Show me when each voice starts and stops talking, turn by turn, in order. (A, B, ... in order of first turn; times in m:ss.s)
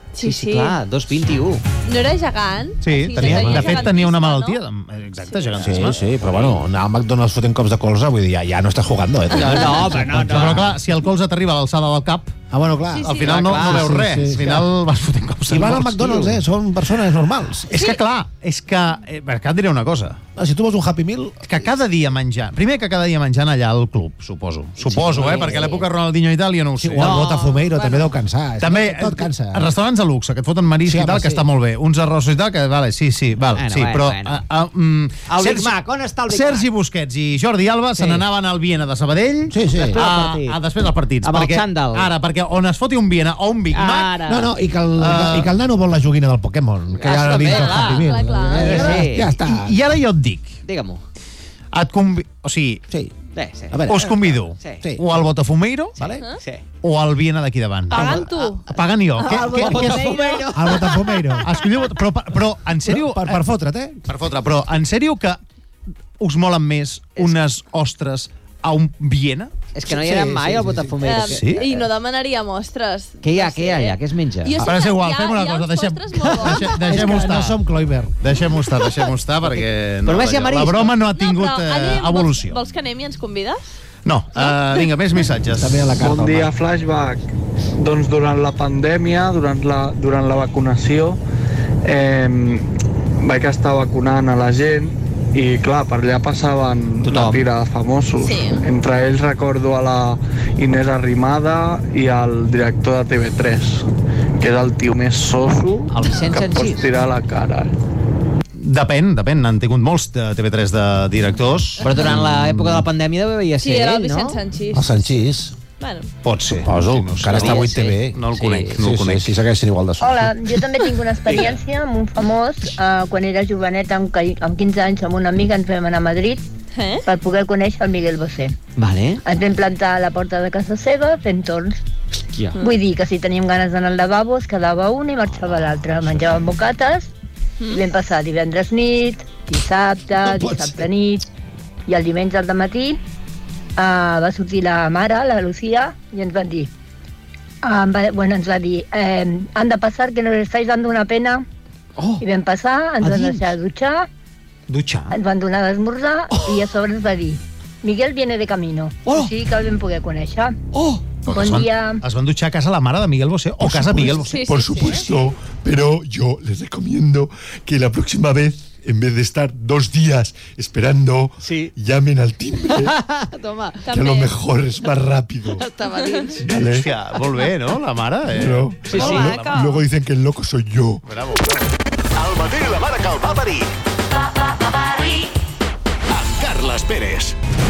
0:00.2-0:00.8 A
0:00.2-0:01.6 B
0:01.9-0:04.6 A
0:02.8-0:06.0 C
0:03.2-0:03.8 D
0:03.2-0:03.6 B
0:05.3-0:05.6 A
0:05.6-0:10.7 D
0:06.1-0:06.6 B
0:09.3-0:10.7 B
0:10.2-0:12.4 C
0:12.5-0:14.7 D
0:12.9-0:13.4 A
0:13.0-0:16.3 C
0:13.2-0:14.5 B
0:15.5-0:17.8 D
0:17.7-0:20.2 C
0:17.7-0:18.0 A
0:20.4-0:21.4 D
0:21.4-0:27.2 C
0:24.8-0:25.9 B
0:26.8-0:29.7 D
0:27.0-0:28.1 B
0:28.6-0:35.8 C
0:30.9-0:31.4 D
0:33.6-0:34.4 B
0:35.3-0:36.7 B
0:36.3-0:44.2 C
0:38.0-0:38.2 B
0:39.5-0:40.0 D
0:39.8-0:40.6 B
0:41.2-0:42.1 B
0:43.7-0:44.5 B
0:44.3-0:49.8 D
0:45.0-0:45.5 C
0:47.0-0:49.3 B
0:47.2-0:49.0 A
0:49.4-0:50.6 C
0:50.7-0:51.0 B
0:51.7-0:52.8 C
0:53.3-0:54.8 B
0:53.7-0:55.1 D
0:53.9-0:56.0 C
0:56.0-0:56.6 B
0:56.8-1:00.1 C
0:57.9-1:00.5 A
0:57.9-0:58.2 B
0:58.0-0:58.2 D
0:59.2-1:01.2 B
0:59.5-1:00.0 D
1:00.5-1:01.5 D
1:01.4-1:03.4 C
1:02.8-1:04.0 D
1:04.1-1:05.4 C
1:06.2-1:09.5 C
1:09.7-1:11.9 B
1:09.9-1:11.0 D
1:11.0-1:17.2 A
1:13.2-1:14.7 B
1:14.6-1:17.6 C
1:16.8-1:18.2 D
1:18.2-1:22.6 C
1:19.5-1:21.0 B
1:21.0-1:23.6 A
1:24.0-1:25.8 C
1:24.4-1:25.2 A
1:25.6-1:26.5 D
1:26.0-1:27.2 E
1:27.8-1:31.2 E
1:31.8-1:32.7 E
1:33.2-1:43.9 E
1:37.0-1:37.4 B
1:38.2-1:38.6 A
1:44.4-1:47.7 E
1:45.9-1:46.8 B
1:48.6-1:52.8 C
1:51.8-1:54.4 B
1:53.6-1:55.0 A
1:54.7-1:55.6 D
1:55.8-1:56.1 A
1:56.3-1:58.2 D
1:56.3-1:59.4 C
1:57.3-1:58.8 B
1:58.8-2:00.4 D
2:00.0-2:06.4 F
2:06.8-2:07.0 A
2:07.1-2:08.6 F
2:08.8-2:09.2 B
2:09.2-2:11.8 F
2:12.6-2:17.1 F
2:17.7-2:21.2 F
2:20.3-2:20.8 D
2:21.9-2:23.0 F
2:23.8-2:26.7 F
2:27.6-2:31.4 F
2:32.2-2:34.1 F
2:34.7-2:35.1 C
2:35.1-2:40.6 F
2:41.2-2:44.4 C
2:41.3-2:42.0 F
2:43.6-2:44.3 D
2:44.1-2:45.2 A
2:44.5-2:52.9 G
2:51.4-2:51.7 B
2:52.7-2:53.9 B
2:53.8-2:54.4 A
2:53.9-2:55.6 G
2:55.6-2:56.5 B
2:55.9-2:56.3 A
2:56.5-2:56.8 G
2:56.5-2:59.6 C
2:58.4-3:01.0 G
2:58.9-2:59.4 B
2:58.9-2:59.8 A
3:01.0-3:01.6 C
3:02.2-3:03.7 H
3:06.1-3:07.4 H